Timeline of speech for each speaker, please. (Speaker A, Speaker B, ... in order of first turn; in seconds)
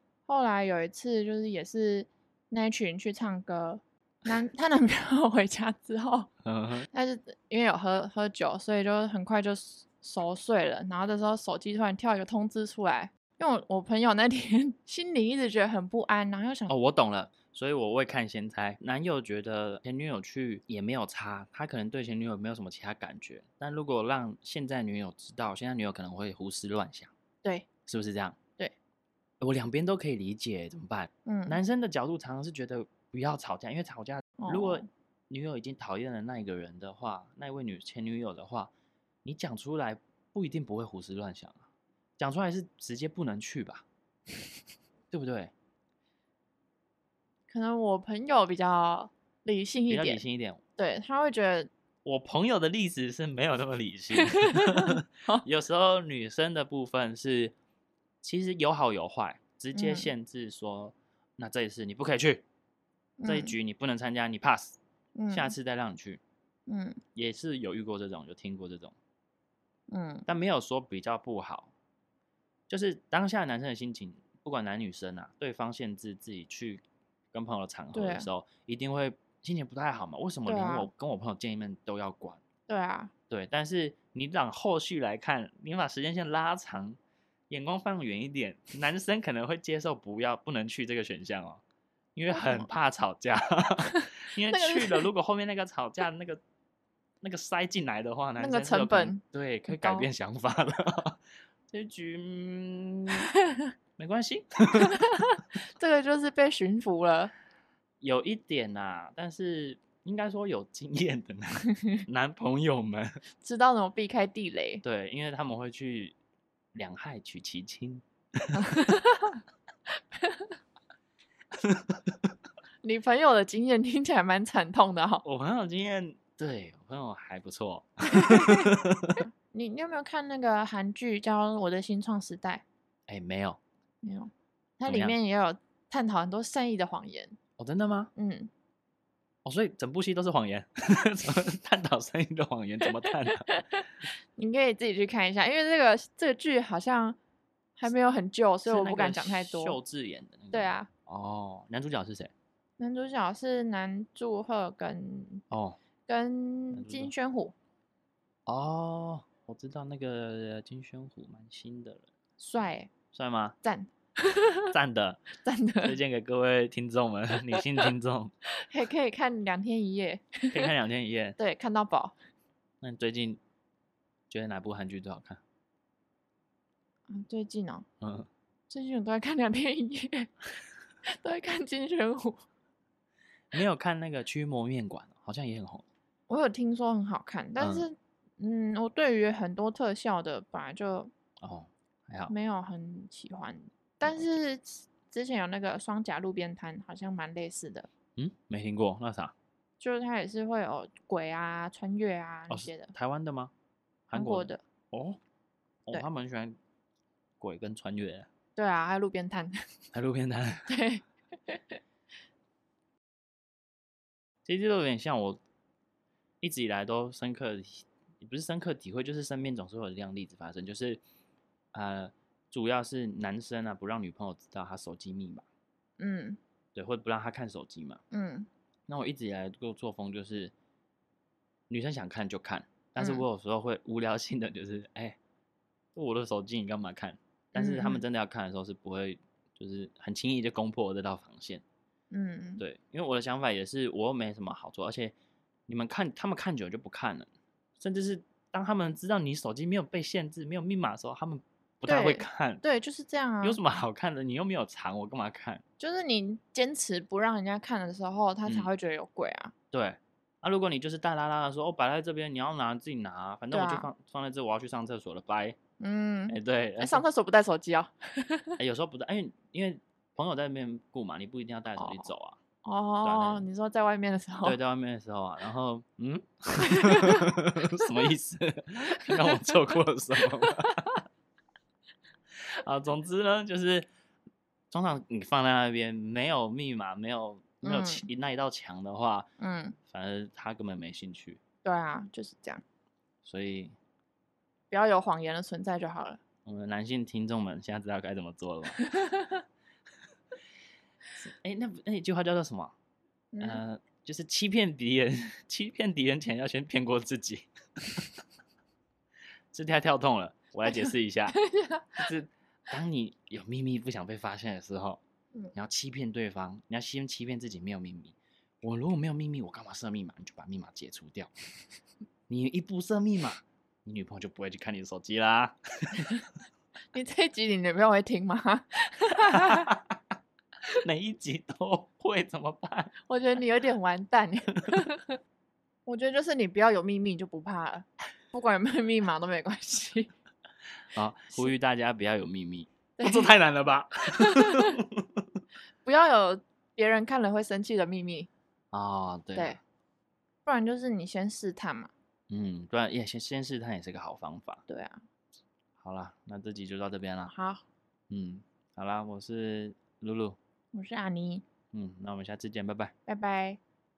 Speaker A: 0.3-6.3, 6.9-16.7, 31.2-31.6, 34.4-34.9, 47.5-50.2, 50.8-51.7, 54.9-55.4, 59.7-60.1, 63.2-63.5, 65.2-65.5, 66.7-67.0, 69.9-70.3, 77.9-78.3, 80.5-80.9, 82.7-83.1, 92.3-92.7, 94.5-95.1, 98.4-100.1, 104.9-107.3, 113.4-114.8, 118.6-119.4, 120.2-120.5, 122.8-125.2, 128.2-128.7, 129.5-132.6, 134.0-137.3, 138.2-138.5, 143.4-147.2, 147.8-149.8, 150.5-150.9, 152.8-155.4, 156.1-157.5, 162.4-162.9, 163.6-164.7, 165.4-166.0, 168.6-170.7, 171.4-172.1, 177.1-177.8, 178.7-180.5, 181.1-182.4, 186.3-191.1, 192.3-197.9, 199.8-202.9, 204.1-204.6, 208.6-209.6, 210.7-211.8, 226.0-226.4, 228.1-228.5, 233.0-233.2, 237.5-238.0, 242.1-242.6, 251.8-253.6, 255.8-259.5, 263.5-263.9, 265.8-268.6, 271.8-272.1, 272.6-274.6, 276.7-277.2, 279.3-279.7, 287.6-288.1, 289.4-289.8, 291.6-292.6, 294.7-296.2, 298.8-299.2, 303.3-303.6, 310.7-312.1, 326.9-329.7, 333.1-335.2, 335.9-340.1, 343.0-343.3, 344.1-344.8, 345.8-348.3, 350.4-351.9, 354.7-355.0, 357.3-357.6, 360.7-361.4, 363.1-363.6
Speaker B: 6.4-6.9, 16.7-27.1, 27.9-28.4, 29.4-38.7, 39.2-41.6, 42.2-43.8, 45.1-45.5, 49.9-50.6, 52.0-57.5, 58.2-62.4, 63.2-64.8, 65.3-66.2, 67.2-68.9, 70.3-71.7, 72.7-82.4, 83.3-87.0, 87.5-91.6, 92.2-96.4, 97.2-101.2, 101.7-103.3, 104.0-105.0, 108.0-113.2, 114.8-116.2, 116.7-118.8, 121.5-122.2, 125.2-129.2, 133.1-133.6, 134.9-135.2, 137.6-138.1, 139.4-143.6, 148.7-152.3, 155.5-155.8, 156.7-157.1, 158.5-162.1, 163.1-163.6, 164.7-165.3, 165.8-168.3, 170.5-171.4, 172.8-173.4, 174.3-175.4, 178.0-178.3, 183.5-185.8, 187.6-187.9, 191.4-192.3, 198.2-199.3, 202.5-203.5, 204.1-205.2, 205.8-206.6, 207.4-208.3, 209.9-210.8, 214.4-215.4, 216.4-221.0, 221.7-225.4, 226.7-228.0, 228.9-230.5, 231.7-235.2, 235.9-241.6, 242.6-245.1, 245.7-252.6, 253.4-255.6, 259.7-265.6, 266.3-267.0, 268.6-272.4, 273.0-273.4, 274.4-281.0, 282.3-283.9, 284.7-289.3, 289.9-291.4, 293.2-293.8, 296.4-298.9, 301.2-302.7, 303.4-308.1, 309.5-311.4, 312.0-315.0, 315.5-321.3, 322.3-326.2, 329.3-330.0, 330.8-332.9, 334.6-334.8, 340.9-345.2, 348.7-349.6, 352.3-354.6, 355.8-357.3, 358.1-360.4, 361.7-362.9